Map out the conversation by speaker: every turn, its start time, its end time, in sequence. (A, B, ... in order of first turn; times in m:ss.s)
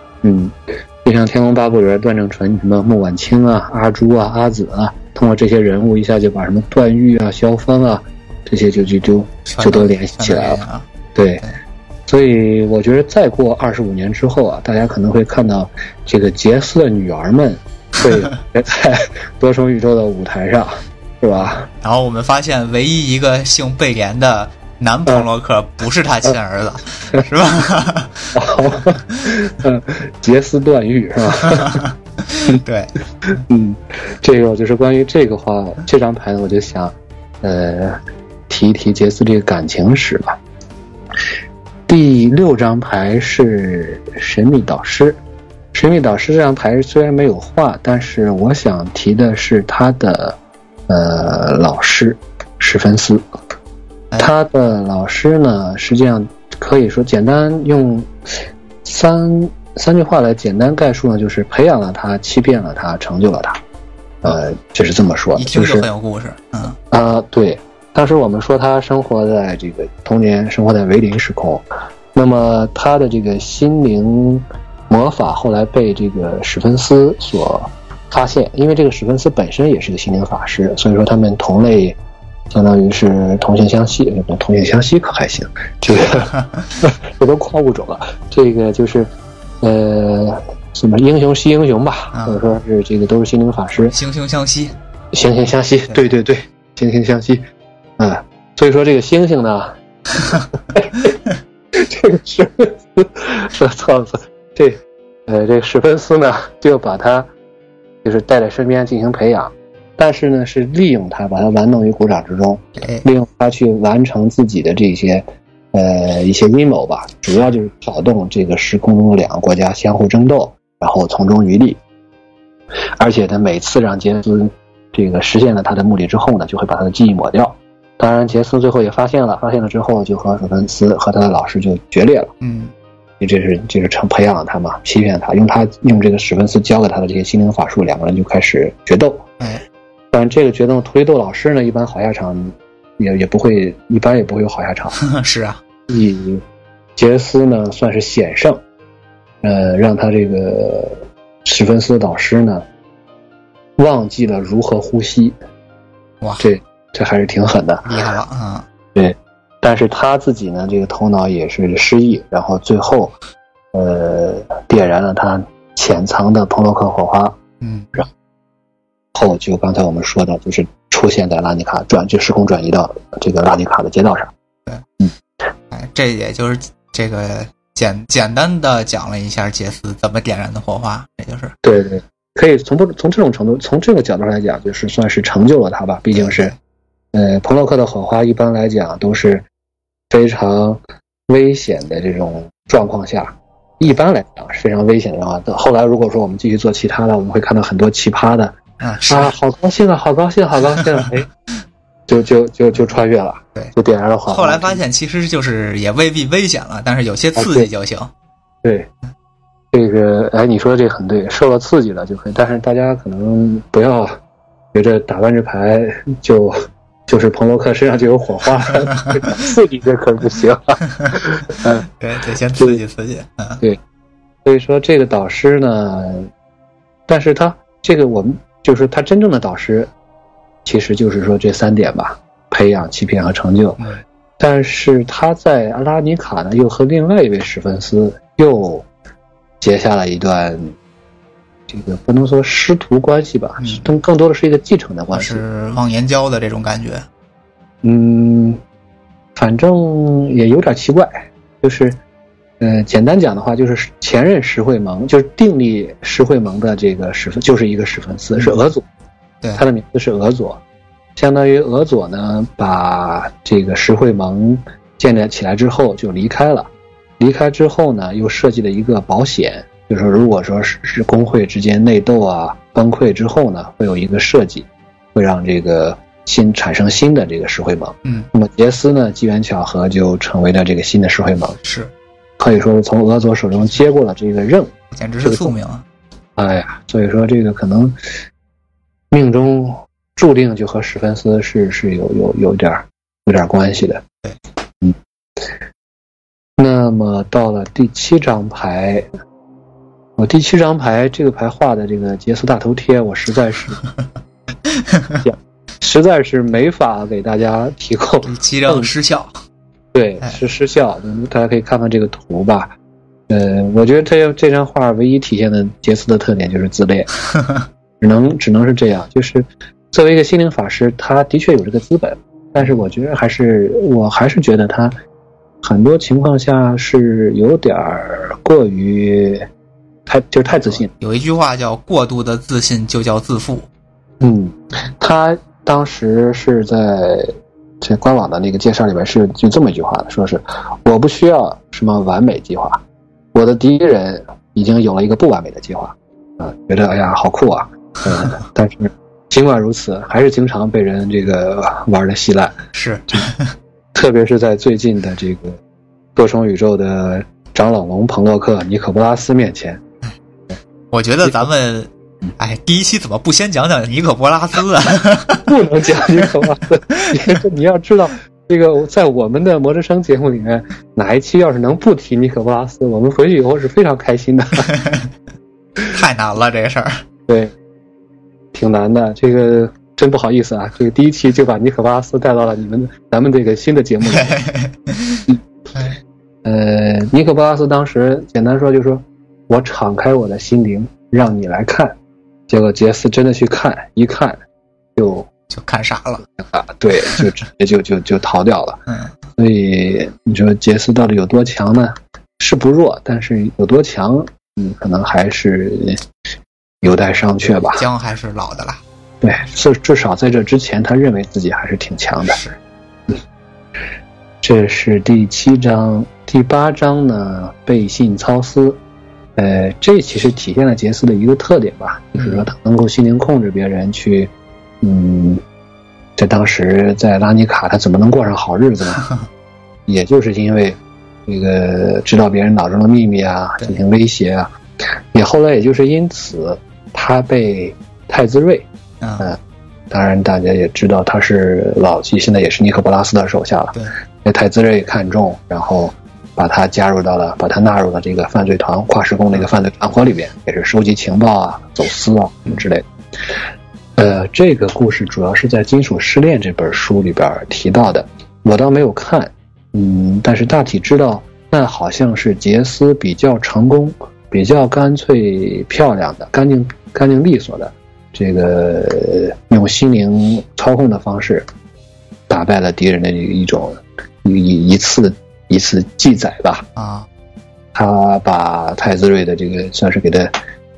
0:00.2-0:10.6 A
0:09.5-0:10.9 B
0:11.2-0:11.5 A
0:12.1-0:21.7 A
0:21.8-0:28.3 B
0:28.3-0:31.8 A
0:31.4-0:32.9 B
0:33.3-0:40.4 A
0:41.9-0:45.2 A
0:45.7-0:53.2 A
0:54.2-1:03.6 A
1:04.2-1:05.9 A
1:05.4-1:06.8 B
1:06.9-1:22.0 A
1:22.5-1:29.1 A
1:26.3-1:26.7 B
1:29.6-1:34.0 A
1:32.1-1:32.4 B
1:33.8-1:34.8 B
1:35.1-1:37.4 A
1:38.0-1:39.8 A
1:40.7-1:41.2 A
1:41.7-1:47.3 A
1:48.0-2:01.8 A
2:03.0-2:12.3 A
2:12.4-2:12.7 B
2:13.2-2:19.3 A
2:20.1-2:25.0 A
2:25.0-2:25.6 B
2:25.9-2:26.4 A
2:27.0-2:28.6 A
2:29.4-2:32.6 A
2:33.8-2:35.4 A
2:36.4-2:37.9 A
2:37.8-2:38.7 B
2:39.0-2:43.2 A
2:43.7-2:47.4 A
2:47.6-2:47.9 B
2:49.1-2:54.3 A
2:55.7-3:01.6 B
3:01.6-3:06.5 A
3:06.2-3:06.5 B
3:07.1-3:09.4 A
3:10.1-3:18.6 A
3:18.8-3:19.3 B
3:19.1-3:21.3 A
3:22.1-3:24.8 A
3:24.3-3:28.1 B
3:27.4-3:27.7 A
3:28.6-3:28.9 A
3:29.7-3:34.2 A
3:34.7-3:41.9 A
3:41.9-3:43.6 B
3:44.4-3:46.3 A
3:47.1-3:49.9 A
3:50.6-3:53.9 A
3:54.4-3:58.9 A
3:59.6-4:00.8 A
4:01.7-4:05.4 A
4:03.6-4:03.9 B
4:05.1-4:07.1 B
4:07.8-4:08.6 A
4:09.4-4:12.0 A
4:12.6-4:18.8 A
4:19.6-4:20.6 A
4:21.2-4:41.6 A
4:41.6-4:41.9 B
4:42.4-4:44.7 A
4:44.9-4:45.8 B
4:45.2-4:45.5 A
4:46.4-4:48.0 A
4:49.1-4:54.0 A
4:56.6-4:59.1 A
5:00.2-5:03.8 A
5:04.7-5:05.2 B
5:05.2-5:08.9 A
5:08.3-5:09.4 B
5:09.9-5:12.7 A
5:13.3-5:17.1 A
5:17.3-5:17.7 B
5:18.0-5:25.0 A
5:25.6-5:29.5 A
5:30.1-5:30.9 A
5:30.9-5:33.7 B
5:34.2-5:42.8 A
5:43.3-5:52.6 A
5:52.7-5:53.5 B
5:53.9-5:55.6 A
5:56.2-5:59.8 A
6:00.9-6:05.4 B
6:05.4-6:14.7 A
6:14.7-6:15.1 B
6:15.9-6:17.0 B
6:17.3-6:17.5 A
6:18.5-6:24.4 A
6:24.1-6:26.0 B
6:26.4-6:32.0 A
6:32.5-6:34.4 A
6:35.0-6:35.3 A
6:35.5-6:36.2 B
6:36.4-6:38.8 A
6:39.4-6:46.0 A
6:46.8-6:47.9 A
6:47.7-6:48.8 B
6:49.2-6:52.4 A
6:52.2-6:52.6 B
6:54.4-6:58.8 A
6:59.4-7:05.4 A
7:02.2-7:02.5 B
7:06.2-7:09.0 A
7:09.0-7:09.3 B
7:09.9-7:14.5 A
7:15.1-7:18.7 A
7:19.0-7:19.4 B
7:19.9-7:32.9 A
7:34.0-7:51.4 A
7:52.3-7:56.7 A
7:56.8-7:57.1 B
7:57.7-8:00.3 A